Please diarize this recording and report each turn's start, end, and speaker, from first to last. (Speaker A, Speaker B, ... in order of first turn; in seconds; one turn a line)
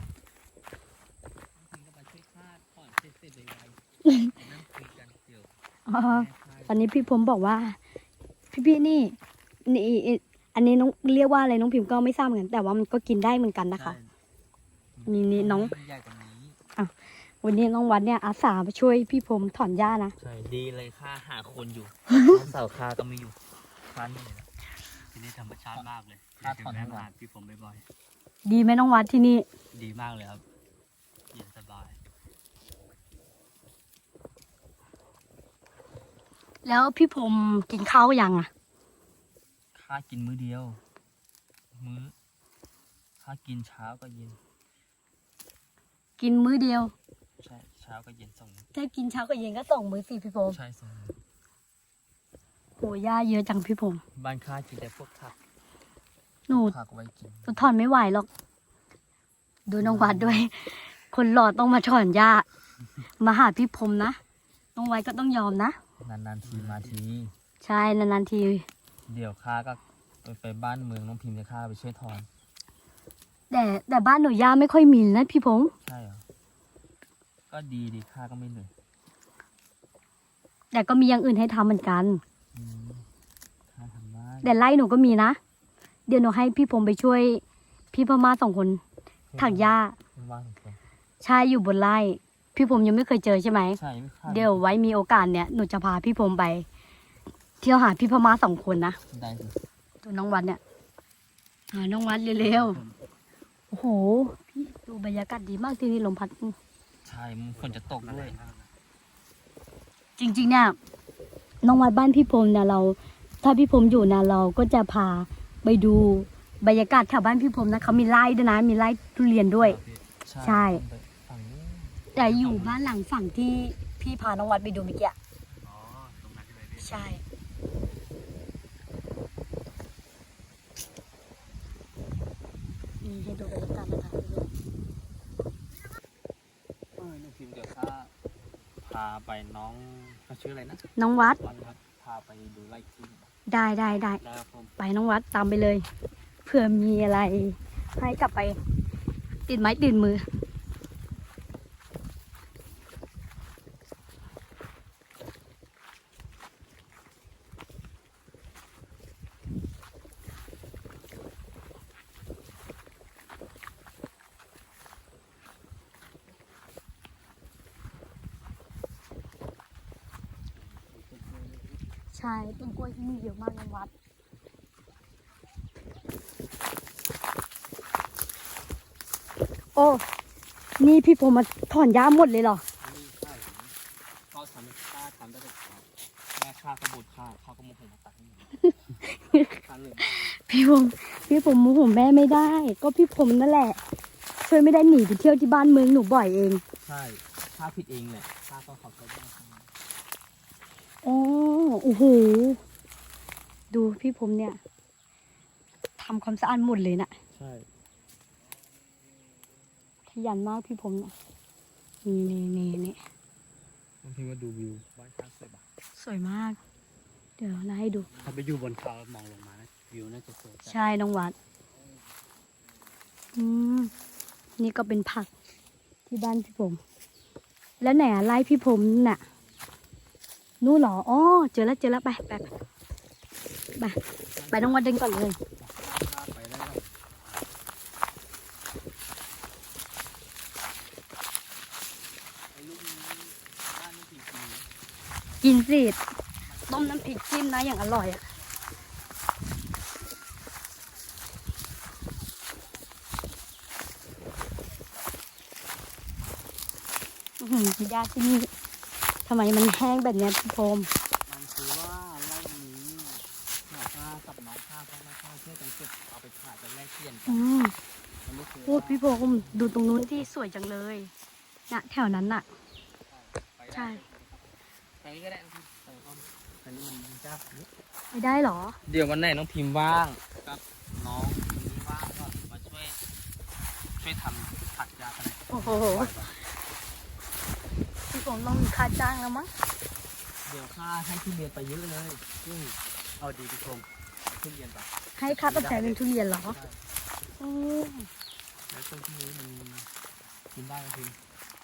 Speaker A: 1.5-5.5
Speaker B: 5.9-7.8
Speaker A: 6.1-7.1
Speaker B: 8.5-14.0
Speaker A: 13.7-14.1
Speaker A: 14.9-16.6
Speaker B: 15.1-15.7
Speaker B: 16.8-20.1
Speaker A: 20.2-24.5
Speaker C: 25.1-27.8
Speaker A: 26.4-27.1
Speaker B: 28.4-29.4
Speaker C: 29.7-30.4
Speaker C: 31.3-32.0
Speaker B: 36.6-38.5
Speaker A: 39.7-40.8
Speaker A: 41.7-42.1
Speaker A: 43.2-44.4
Speaker B: 46.2-46.9
Speaker A: 47.4-48.7
Speaker B: 48.7-50.6
Speaker A: 50.5-51.2
Speaker B: 52.8-54.0
Speaker A: 54.1-55.4
Speaker A: 56.5-57.7
Speaker B: 56.5-56.7
Speaker B: 57.5-58.3
Speaker B: 59.7-62.5
Speaker A: 59.8-60.5
Speaker B: 63.2-64.2
Speaker B: 64.8-65.8
Speaker A: 66.0-67.3
Speaker C: 66.5-67.0
Speaker B: 67.6-68.7
Speaker A: 69.1-72.3
Speaker B: 73.5-75.7
Speaker A: 75.8-76.2
Speaker A: 77.5-78.7
Speaker B: 80.7-82.2
Speaker A: 82.5-83.1
Speaker A: 83.7-84.5
Speaker B: 84.4-85.4
Speaker B: 86.1-87.4
Speaker B: 87.9-88.8
Speaker A: 89.3-90.8
Speaker B: 89.4-90.0
Speaker B: 91.2-96.7
Speaker A: 93.7-94.7
Speaker B: 97.6-99.0
Speaker A: 99.1-99.6
Speaker B: 100.0-100.6
Speaker B: 101.7-102.8
Speaker C: 102.4-103.0
Speaker B: 103.7-106.5
Speaker A: 107.0-108.4
Speaker C: 107.5-108.7
Speaker B: 110.2-110.8
Speaker B: 111.6-119.8
Speaker A: 119.6-122.9
Speaker B: 120.4-120.8
Speaker B: 122.1-125.2
Speaker C: 125.6-127.0
Speaker B: 126.8-127.2
Speaker B: 133.0-134.5
Speaker A: 137.0-138.1
Speaker A: 138.8-140.8
Speaker B: 141.0-141.4
Speaker A: 141.4-143.3
Speaker B: 143.5-144.2
Speaker A: 144.2-144.7
Speaker B: 144.8-145.8
Speaker B: 146.4-148.6
Speaker B: 149.5-150.2
Speaker A: 170.6-171.8
Speaker B: 172.1-173.9
Speaker B: 179.7-180.0
Speaker B: 180.8-182.6
Speaker A: 182.8-183.7
Speaker A: 184.3-188.6
Speaker B: 188.6-193.8
Speaker A: 189.6-190.2
Speaker A: 191.2-191.6
Speaker B: 194.4-196.6
Speaker A: 196.8-199.7
Speaker B: 201.0-202.6
Speaker B: 203.7-204.6
Speaker B: 206.0-207.1
Speaker A: 207.3-207.7
Speaker B: 210.1-211.1
Speaker B: 212.0-213.0
Speaker A: 214.0-215.6
Speaker B: 215.9-216.6
Speaker B: 217.4-218.1
Speaker A: 218.1-218.4
Speaker C: 218.2-220.8
Speaker B: 220.6-221.3
Speaker B: 223.3-223.9
Speaker B: 224.6-225.3
Speaker B: 226.1-226.8
Speaker B: 227.8-229.2
Speaker A: 227.8-229.5
Speaker B: 230.6-232.6
Speaker A: 234.3-234.8
Speaker B: 234.5-235.4
Speaker A: 235.6-236.9
Speaker A: 242.5-244.7
Speaker B: 245.4-246.0
Speaker A: 246.4-247.1
Speaker B: 246.7-248.3
Speaker B: 257.4-258.5
Speaker B: 259.2-260.9
Speaker A: 261.2-267.4
Speaker B: 267.3-267.7
Speaker A: 268.2-270.3
Speaker B: 268.6-271.1
Speaker B: 271.7-272.5
Speaker A: 273.1-277.7
Speaker B: 273.7-274.0
Speaker B: 278.1-278.8
Speaker A: 278.8-283.0
Speaker A: 284.0-286.2
Speaker B: 285.5-286.1
Speaker C: 285.7-286.3
Speaker B: 288.1-289.5
Speaker A: 290.4-292.2
Speaker C: 292.4-293.9
Speaker A: 294.3-296.8
Speaker B: 295.2-296.6
Speaker B: 297.4-298.1
Speaker A: 298.7-299.9
Speaker A: 300.5-301.2